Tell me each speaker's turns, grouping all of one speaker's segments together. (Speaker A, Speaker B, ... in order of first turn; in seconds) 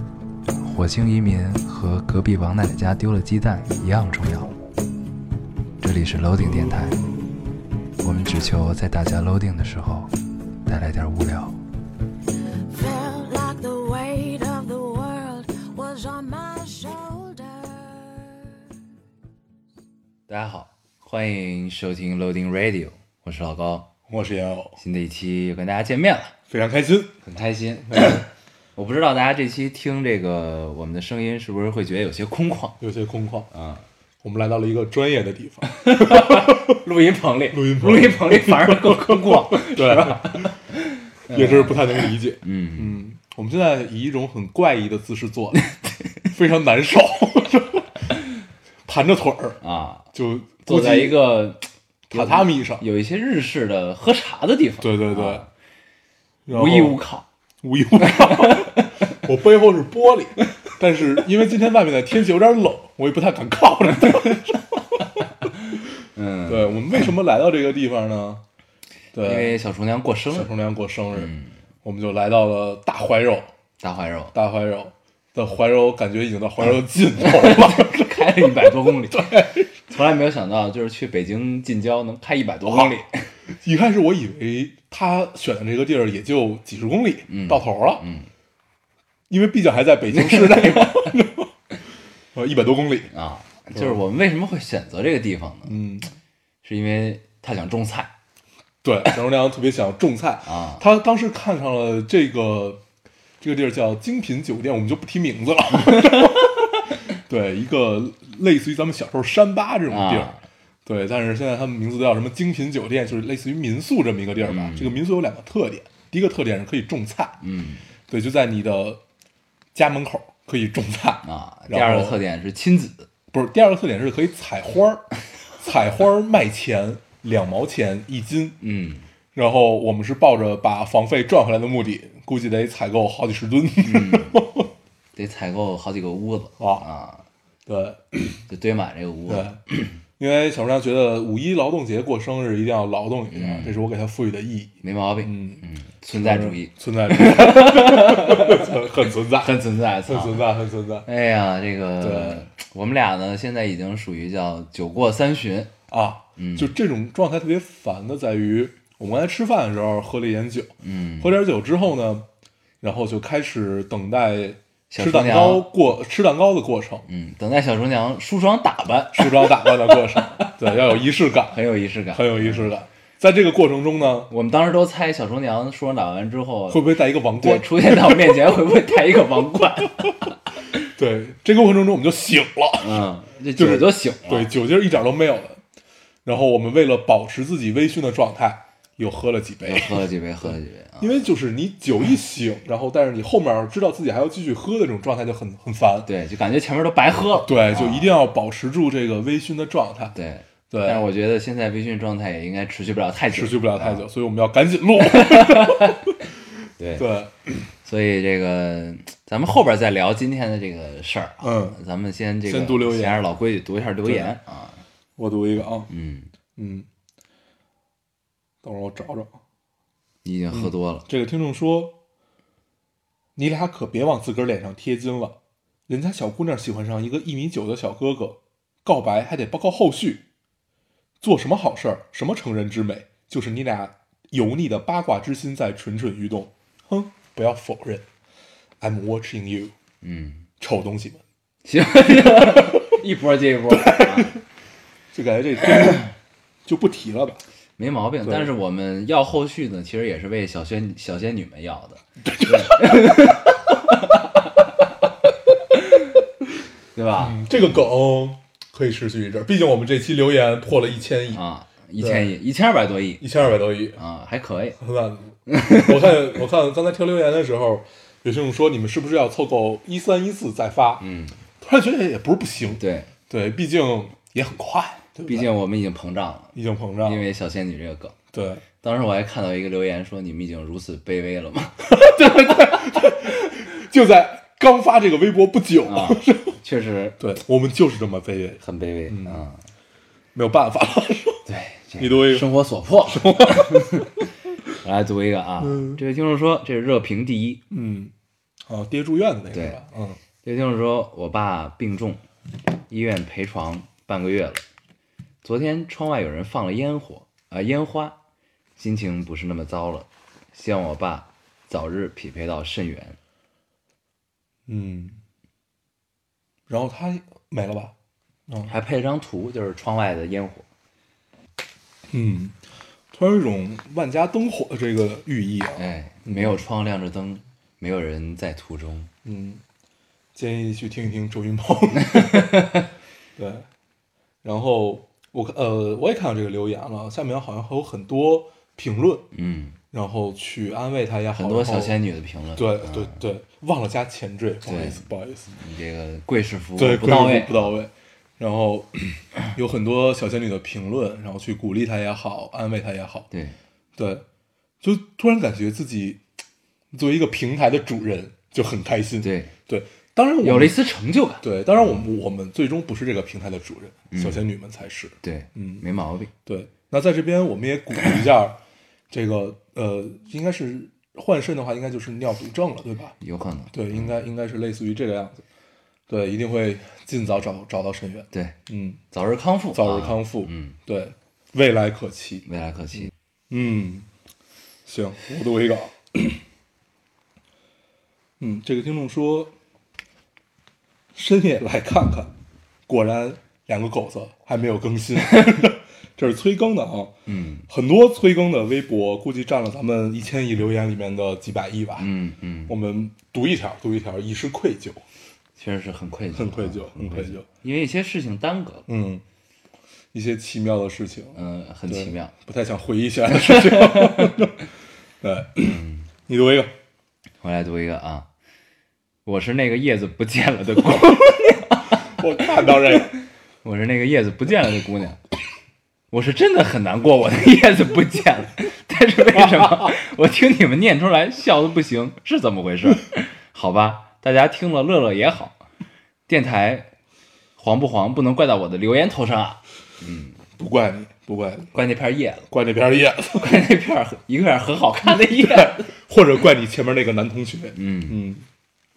Speaker A: 0.6-4.5, 5.8-7.0, 8.0-10.1, 10.7-11.6, 20.3-23.9, 24.8-26.3, 27.2-32.8, 33.5-33.8, 35.8-43.0, 49.6-50.1, 50.6-55.5, 56.5-57.3, 58.0-59.0, 66.1-66.7, 69.2-70.5, 71.1-71.5, 73.8-74.3, 77.2-79.3, 79.9-83.3, 87.3-88.3, 90.1-91.2, 93.1-95.8, 96.6-98.1, 100.4-100.8, 106.0-106.3, 109.9-110.4, 114.4-115.0, 117.4-117.8, 121.2-123.1, 128.6-129.1, 133.8-134.4, 135.1-137.2, 138.5-140.0, 143.3-143.8, 144.8-148.8, 149.4-150.4, 151.1-155.7, 156.4-156.7, 160.8-161.4, 164.9-165.7, 167.1-170.7, 171.5-172.7, 174.3-180.3, 182.8-184.5, 189.6-191.1, 196.0-198.1, 200.1-204.0, 205.1-206.0, 206.8-207.1, 207.8-214.8, 215.9-216.3, 220.2-221.1, 240.0-240.4, 241.6-244.4, 247.8-254.4, 255.7-256.1, 256.9-257.4, 261.3-263.3, 263.9-264.8, 265.5-266.1, 271.0-271.4, 272.8-273.1, 275.2-278.1, 278.8-281.9, 285.8-287.2, 288.6-289.6, 291.4-294.2, 294.8-297.6, 299.5-299.8, 300.4-302.2, 302.9-304.6, 305.4-308.2, 308.8-313.2, 318.7-320.7, 325.8-329.1, 332.0-332.9, 339.3-339.8, 341.3-343.2, 344.6-347.7, 353.3-353.6, 359.2-359.5, 360.4-362.1, 364.1-364.4, 365.2-366.3, 373.2-374.1, 379.1-380.8, 382.4-383.1, 397.3-397.7, 402.0-402.7, 405.6-408.9, 411.3-412.3, 413.3-414.4, 415.6-416.1, 417.4-418.3, 419.2-422.1, 422.7-423.0, 423.6-425.2, 426.1-435.6, 436.3-436.9, 437.6-440.4, 441.7-442.5, 443.4-445.9, 447.8-448.2
Speaker B: 12.7-18.5
Speaker C: 24.1-24.8, 26.5-27.2, 27.9-28.2, 32.8-33.5, 34.2-36.7, 37.5-40.5, 41.3-45.6, 46.2-48.1, 48.9-49.6, 50.1-51.2, 52.1-52.9, 54.8-55.4, 56.5-57.0, 57.6-65.0, 66.5-68.4, 69.1-69.6, 70.3-73.5, 74.3-79.7, 83.5-88.0, 89.3-91.5, 92.3-93.1, 93.7-94.0, 95.6-96.1, 98.8-102.8, 103.4-117.4, 118.1-119.0, 119.7-122.2, 123.3-125.1, 125.6-128.6, 129.3-134.7, 136.6-136.8, 137.7-138.4, 139.3-139.6, 140.2-151.1, 152.0-152.5, 155.9-162.3, 162.8-167.1, 169.1-171.6, 172.1-174.3, 176.7-178.5, 180.8-183.0, 183.6-185.6, 186.2-196.1, 197.4-200.2, 200.7-201.0, 203.3-206.2, 206.9-207.3, 211.4-211.8, 212.4-213.2, 214.0-214.3, 215.2-215.9, 216.6-216.9, 218.6-219.4, 220.5-222.0, 223.3-230.2, 231.2-238.1, 238.8-239.7, 240.6-241.2, 242.2-242.9, 243.7-244.4, 245.1-246.1, 246.6-247.4, 248.2-248.5, 252.2-253.3, 257.1-261.4, 262.0-262.3, 263.2-264.0, 264.8-271.0, 271.6-275.5, 276.5-277.2, 278.3-278.6, 281.8-286.6, 287.2-289.4, 290.3-291.4, 292.0-292.5, 293.1-294.1, 295.6-296.0, 297.7-298.1, 298.6-300.2, 314.7-315.2, 316.7-317.9, 318.5-318.7, 322.1-322.6, 323.1-326.6, 329.2-329.6, 330.3-332.8, 333.4-333.7, 334.4-339.3, 339.9-342.0, 342.5-345.5, 346.8-353.3, 354.0-354.2, 354.8-356.2, 356.9-360.8, 361.4-365.8, 366.4-368.6, 369.1-373.1, 373.7-375.4, 376.1-379.0, 379.7-382.4, 383.0-384.1, 384.8-386.4, 388.4-389.5, 391.1-392.3, 392.9-397.2, 397.7-402.1, 402.7-405.0, 406.3-407.4, 408.9-409.2, 410.1-414.6, 415.2-416.7, 421.9-423.1, 440.6-441.7, 442.5-443.6, 445.2-448.4